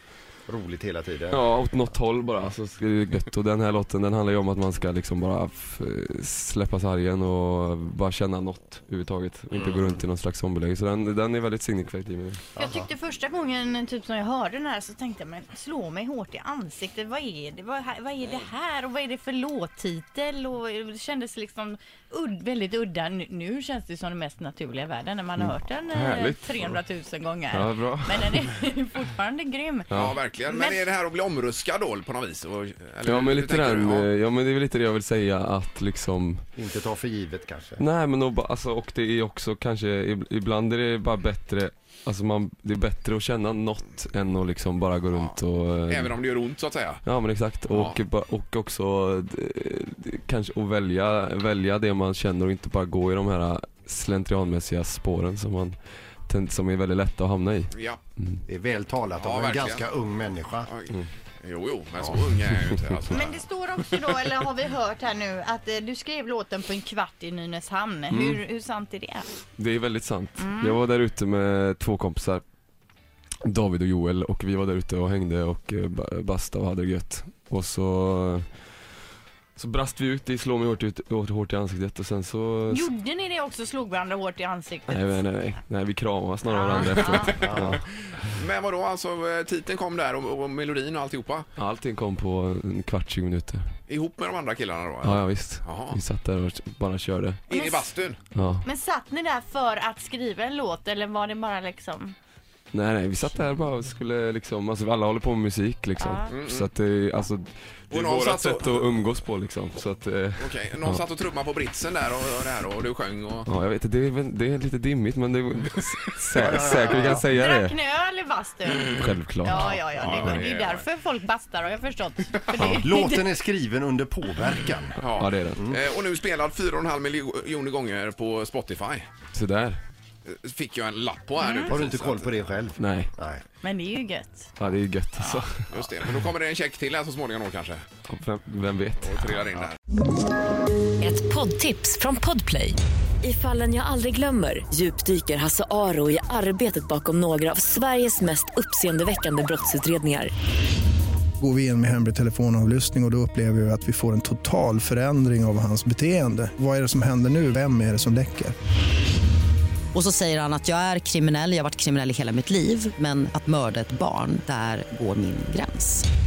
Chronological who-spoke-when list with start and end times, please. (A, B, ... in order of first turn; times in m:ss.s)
0:00.5-0:01.4 A
0:01.3-0:12.4 B
0:09.5-0:10.0 C
0:12.6-0:29.9 D
0:12.6-0:12.9 A
0:25.4-0:26.8 B
0:27.5-0:28.4 B
0:29.9-0:30.2 B
0:29.9-0:34.1 C
0:30.4-0:30.8 D
0:33.0-0:36.5 B
0:36.6-0:37.8 A
0:37.8-0:46.2 B
0:45.1-0:45.4 C
0:45.9-0:47.0 C
0:47.0-0:58.4 B
0:47.7-0:48.0 C
0:57.7-0:58.0 C
0:58.5-1:00.7 A
0:59.2-0:59.8 C
1:00.7-1:03.4 C
1:03.1-1:09.3 D
1:08.1-1:08.4 B
1:09.6-1:12.4 B
1:10.4-1:10.8 D
1:13.4-1:18.6 B
1:19.6-1:22.9 B
1:22.7-1:25.2 D
1:24.9-1:27.8 B
1:26.4-1:27.4 D
1:27.0-1:31.5 C
1:27.4-1:27.8 A
1:31.6-1:33.7 B
1:33.9-1:36.0 C
1:35.0-1:37.4 B
1:37.5-1:38.2 C
1:37.5-1:37.9 D
1:38.4-1:38.6 B
1:38.6-1:42.2 D
1:42.7-1:51.0 B
1:46.0-1:46.4 D
1:46.3-1:46.7 C
1:47.9-1:48.9 C
1:50.4-1:53.5 C
1:53.5-1:57.8 B
1:56.4-1:57.2 A
1:56.8-2:03.3 D
1:58.9-2:00.4 B
1:59.5-2:00.9 C
2:02.6-2:02.8 B
2:02.6-2:05.0 A
2:05.0-2:09.1 C
2:05.0-2:05.6 B
2:09.3-2:09.8 B
2:10.2-2:12.4 C
2:11.4-2:11.8 D
2:11.7-2:13.4 A
2:12.8-2:13.1 B
2:13.6-2:14.5 D
2:14.6-2:15.7 B
2:15.2-2:15.4 D
2:15.7-2:17.8 C
2:18.1-2:19.2 B
2:19.0-2:19.8 C
2:21.0-2:30.3 E
2:31.4-2:38.6 F
2:39.9-2:46.0 G